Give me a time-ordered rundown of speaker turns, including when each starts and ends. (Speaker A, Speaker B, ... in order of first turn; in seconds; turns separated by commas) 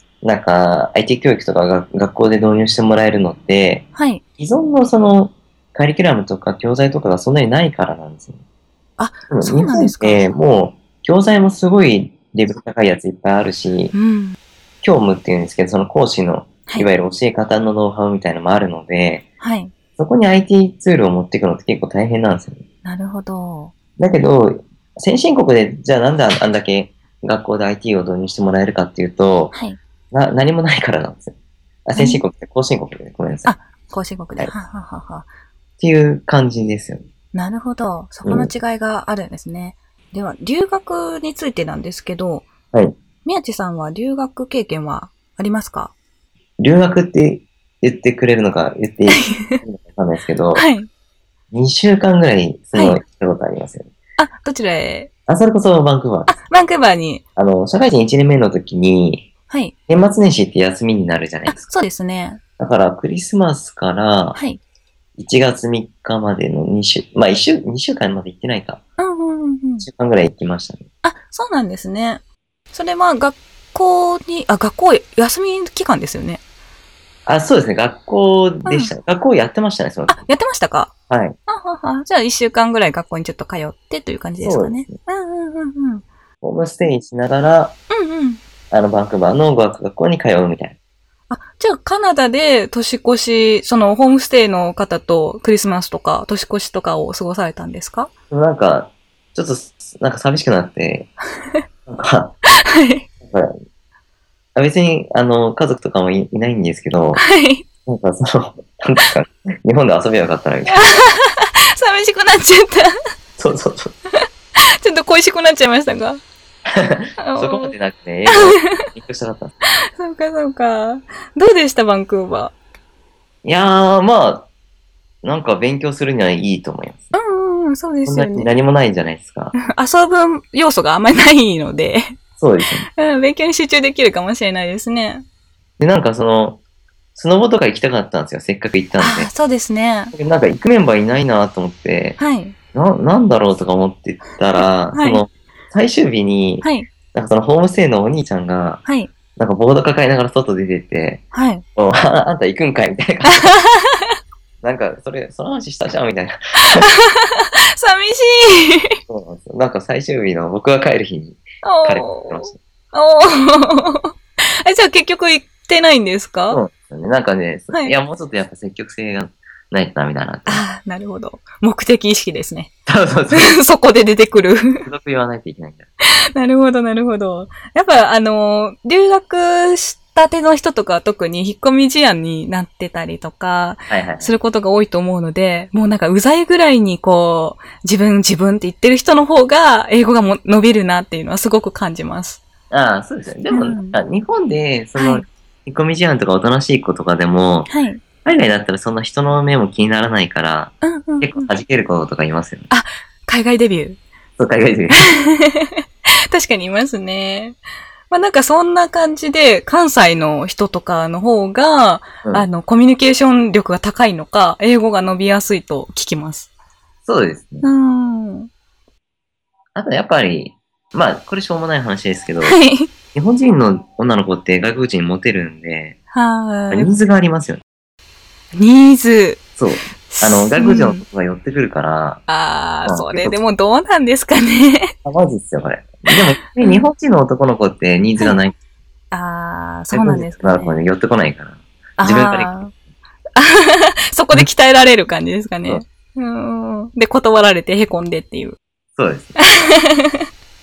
Speaker A: 0.2-3.9, Speaker B: 3.9-4.2, Speaker A: 4.4-8.4, Speaker B: 9.0-10.3, Speaker A: 9.3-13.9, Speaker B: 13.9-14.4, Speaker A: 14.8-19.2, Speaker B: 19.4-19.7, Speaker A: 20.0-22.6, Speaker B: 22.8-23.7, Speaker A: 24.0-29.5, Speaker B: 29.5-29.8, Speaker A: 30.1-31.3, Speaker A: 31.9-33.5, Speaker B: 31.9-32.2, Speaker B: 33.5-35.3, Speaker A: 35.8-37.0, Speaker B: 37.3-42.5, Speaker A: 38.2-38.5, Speaker B: 43.2-45.9, Speaker A: 46.6-50.6, Speaker B: 49.1-49.6, Speaker B: 50.5-50.9, Speaker A: 51.5-53.9, Speaker B: 52.7-53.0, Speaker B: 54.2-55.1, Speaker A: 55.3-56.4, Speaker B: 56.3-57.2, Speaker A: 57.4-59.2, Speaker B: 59.5-59.7, Speaker A: 59.9-61.6, Speaker B: 61.5-62.4, Speaker A: 62.6-64.4, Speaker A: 65.2-68.8, Speaker B: 69.0-69.9, Speaker A: 69.8-70.8, Speaker B: 71.0-72.2, Speaker B: 72.7-76.4, Speaker A: 77.2-80.2, Speaker B: 78.6-78.9, Speaker B: 80.1-80.9, Speaker A: 81.1-81.4, Speaker B: 81.5-86.0, Speaker A: 84.4-85.0, Speaker A: 86.4-87.8, Speaker B: 87.9-88.4, Speaker A: 88.7-90.8, Speaker B: 91.3-98.1, Speaker A: 98.3-101.1, Speaker B: 101.4-101.6, Speaker A: 101.9-102.3, Speaker B: 102.4-103.0, Speaker A: 103.2-103.5, Speaker A: 104.5-107.2, Speaker B: 107.2-107.6, Speaker A: 107.8-110.9, Speaker B: 110.7-112.9, Speaker A: 113.4-113.9, Speaker B: 114.1-116.2, Speaker A: 116.7-119.6, Speaker B: 117.2-117.7, Speaker B: 118.3-118.9, Speaker B: 119.7-122.5, Speaker A: 123.4-124.5, Speaker A: 125.2-127.1, Speaker B: 127.1-128.5, Speaker A: 128.1-129.5, Speaker B: 129.6-132.2, Speaker A: 132.4-132.9, Speaker B: 132.9-135.2, Speaker A: 135.8-136.6, Speaker A: 137.2-139.3, Speaker B: 139.0-140.1, Speaker A: 140.1-142.2, Speaker B: 142.2-142.6, Speaker A: 142.7-148.8, Speaker B: 144.6-145.2, Speaker B: 146.6-146.9, Speaker B: 148.8-149.1, Speaker A: 149.3-151.2, Speaker B: 151.3-151.6, Speaker A: 151.8-153.5, Speaker B: 153.3-154.1, Speaker A: 154.6-156.8, Speaker B: 156.6-159.0, Speaker A: 159.1-162.6, Speaker B: 161.6-166.6, Speaker A: 166.5-170.6, Speaker B: 170.4-172.7, Speaker A: 172.9-173.5, Speaker B: 173.3-174.9, Speaker A: 174.8-175.9, Speaker B: 176.3-192.4, Speaker A: 183.9-184.3, Speaker A: 192.7-197.7, Speaker B: 193.5-194.0, Speaker B: 194.9-195.2, Speaker B: 197.7-198.0, Speaker A: 198.2-202.7, Speaker B: 200.8-201.5, Speaker B: 202.7-204.0, Speaker A: 204.4-205.1, Speaker B: 205.1-207.6, Speaker B: 208.1-216.5, Speaker A: 217.1-217.7, Speaker B: 217.6-218.5, Speaker A: 219.7-222.6, Speaker B: 222.4-222.9, Speaker A: 223.1-226.0, Speaker B: 226.1-226.9, Speaker A: 226.7-227.6, Speaker B: 228.5-229.4, Speaker A: 229.6-232.2, Speaker B: 230.1-231.0, Speaker B: 232.3-234.9, Speaker A: 232.8-233.4, Speaker A: 235.0-238.5, Speaker B: 236.1-236.9, Speaker B: 239.1-240.8, Speaker A: 239.9-242.5, Speaker B: 242.0-242.7, Speaker B: 243.3-248.6, Speaker A: 249.0-249.4, Speaker B: 249.4-250.2